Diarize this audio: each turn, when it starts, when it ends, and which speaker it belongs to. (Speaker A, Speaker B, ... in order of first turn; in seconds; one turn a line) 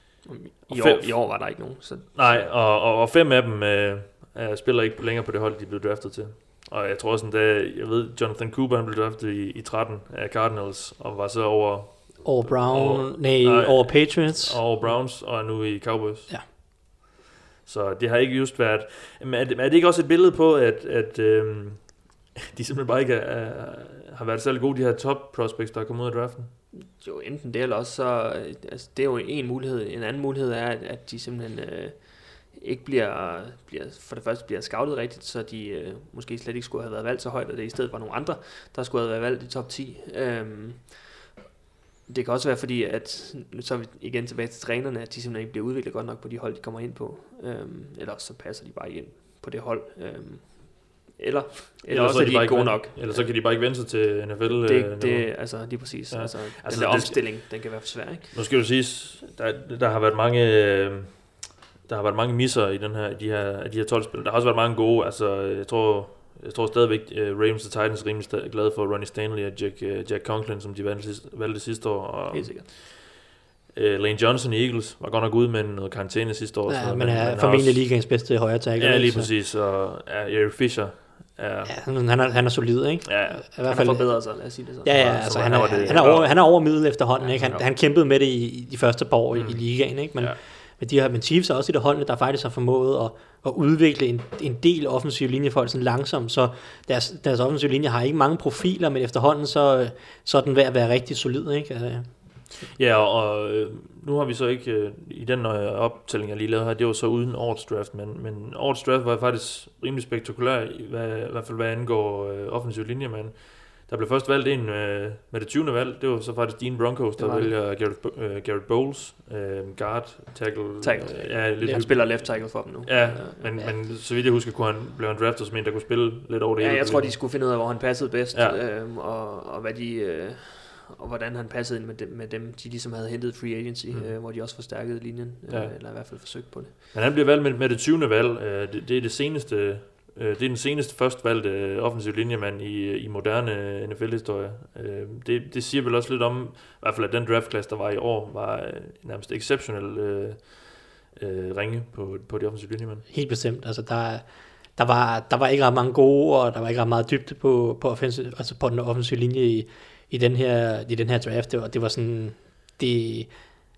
Speaker A: 0.3-2.5
Speaker B: 0.7-16.5
Speaker C: 12.2-14.9
Speaker B: 17.6-26.5
Speaker A: 26.7-41.1
Speaker A: 42.1-53.4
Speaker B: 51.9-73.2
Speaker A: 54.6-58.3
Speaker A: 72.3-72.7
Speaker B: 73.7-78.2
Speaker C: 76.7-79.3
Speaker B: 78.8-81.8
Speaker C: 81.7-102.5
Speaker B: 83.1-83.5
Speaker A: 83.6-86.4
Speaker B: 84.9-86.3
Speaker A: 87.2-87.7
Speaker B: 89.3-90.4
Speaker B: 102.7-127.8
Speaker A: 117.2-117.5
Speaker A: 120.8-123.8
Speaker A: 126.6-136.8
Speaker B: 135.5-153.1
Speaker C: 153.1-163.3